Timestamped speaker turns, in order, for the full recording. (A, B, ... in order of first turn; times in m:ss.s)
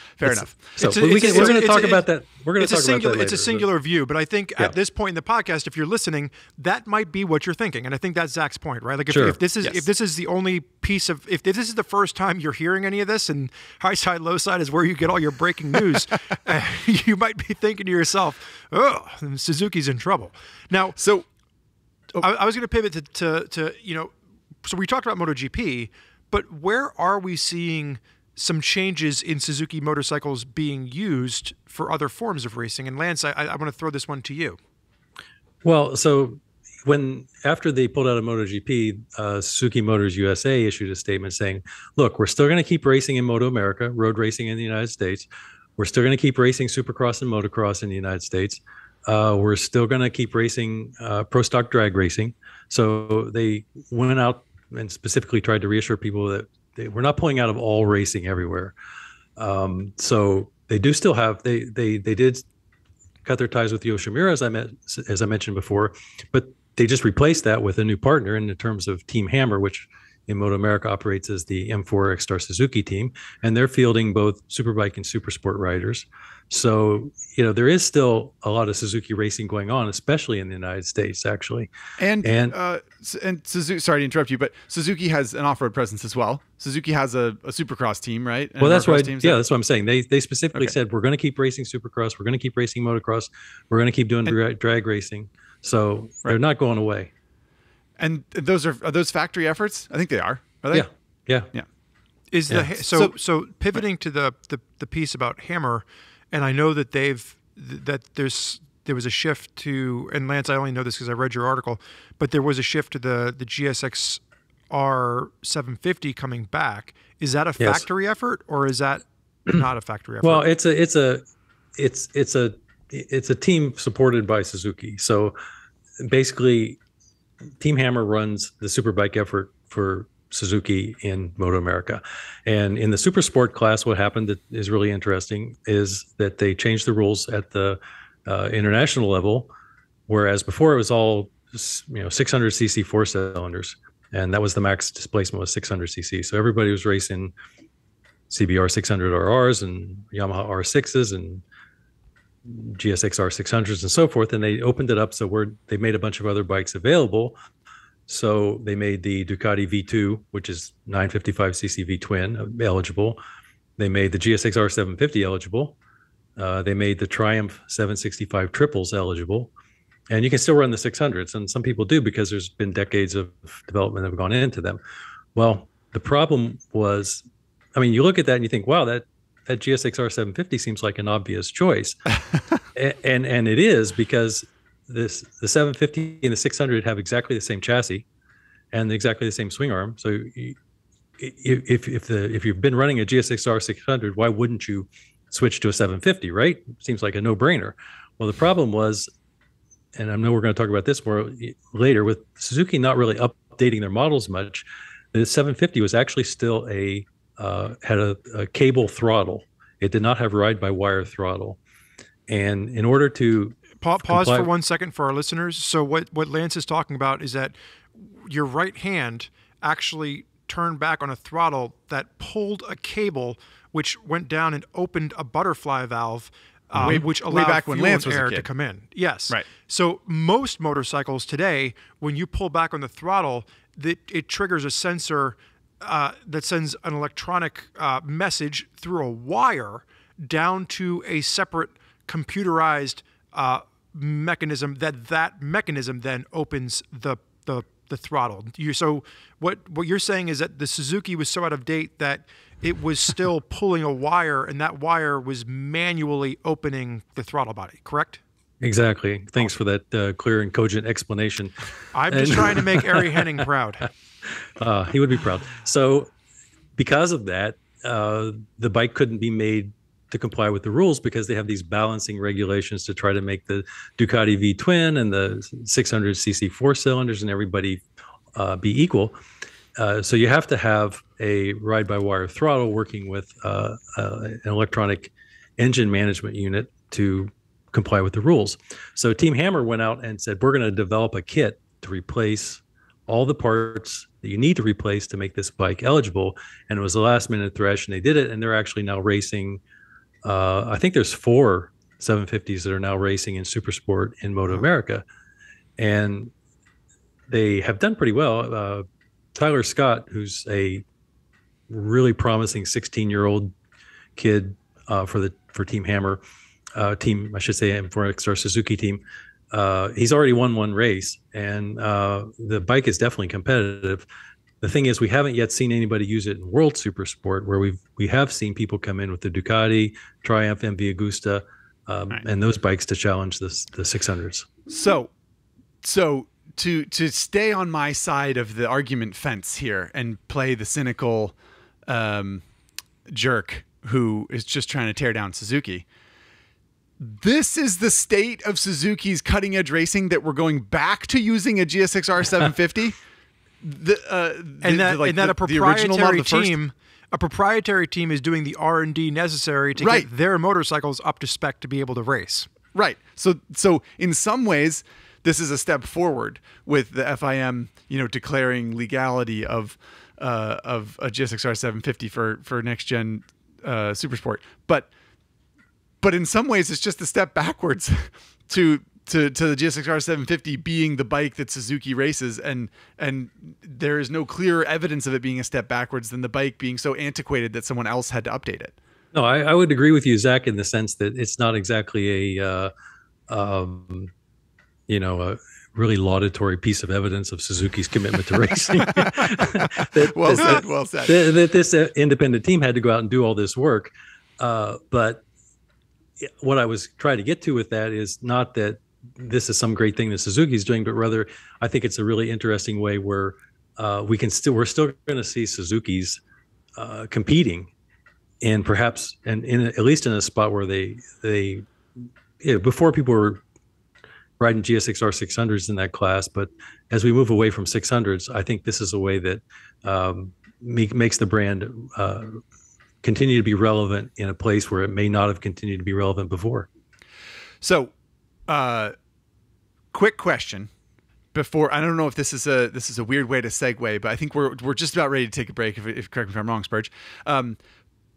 0:00.2-0:01.7 A
0:00.2-0:03.7 B
0:00.8-0:02.0 C
0:02.6-0:21.0 C
0:09.1-0:09.4 B
0:21.0-0:21.2 A
0:22.2-0:34.6 C
0:35.6-0:58.7 B
0:59.4-1:02.4 B
1:03.2-1:21.7 B
1:22.0-1:29.4 A
1:22.2-1:22.6 B
1:28.6-1:37.1 B
1:38.0-1:40.9 A
1:40.7-1:41.5 B
1:42.3-2:00.5 C
1:42.9-1:43.1 A
1:57.6-1:57.8 B
2:00.2-2:01.2 B
2:01.8-2:05.3 B
2:06.0-2:06.8 B
2:07.6-2:19.5 B
2:20.1-2:27.3 B
2:28.3-2:31.4 B
2:32.4-2:37.3 B
2:38.1-2:43.2 B
2:43.8-2:45.8 B
2:46.4-2:49.5 B
2:50.1-2:54.8 B
2:55.3-2:57.2 B
2:57.8-3:02.0 B
3:02.7-3:08.0 B
3:08.7-3:10.6 B
3:11.2-3:19.1 B
3:19.9-3:31.6 B
3:32.3-3:34.5 B
3:33.8-4:18.2 C
3:46.7-3:47.0 B
3:46.8-3:48.4 A
4:18.6-4:21.6 B
4:21.9-4:23.9 C
4:22.1-4:23.4 B
4:24.2-4:26.1 B
4:26.8-4:37.8 B
4:38.4-4:39.2 B
4:39.8-4:59.6 B
5:00.2-5:05.0 B
5:05.8-5:06.3 B
5:07.3-5:10.8 B
5:11.7-5:13.5 B
5:14.2-5:16.2 B
5:16.7-5:24.0 B
5:24.6-5:34.5 B
5:34.7-5:35.1 A
5:35.8-5:41.3 A
5:41.9-5:42.4 A
5:43.1-5:45.8 A
5:47.0-5:53.0 A
5:53.6-5:56.5 A
5:54.6-6:02.5 C
5:59.8-6:00.1 A
6:02.7-6:14.9 A
6:16.0-6:28.7 A
6:29.1-6:32.7 B
6:33.3-6:34.1 B
6:34.9-6:45.2 B
6:38.9-6:41.3 A
6:46.2-6:56.2 B
6:56.8-6:57.7 B
6:58.4-7:01.7 B
7:02.4-7:03.4 B
7:04.4-7:12.4 B
7:13.0-7:16.7 B
7:17.6-7:17.9 A
7:18.5-7:18.9 A
7:19.9-7:20.7 A
7:21.3-7:27.6 A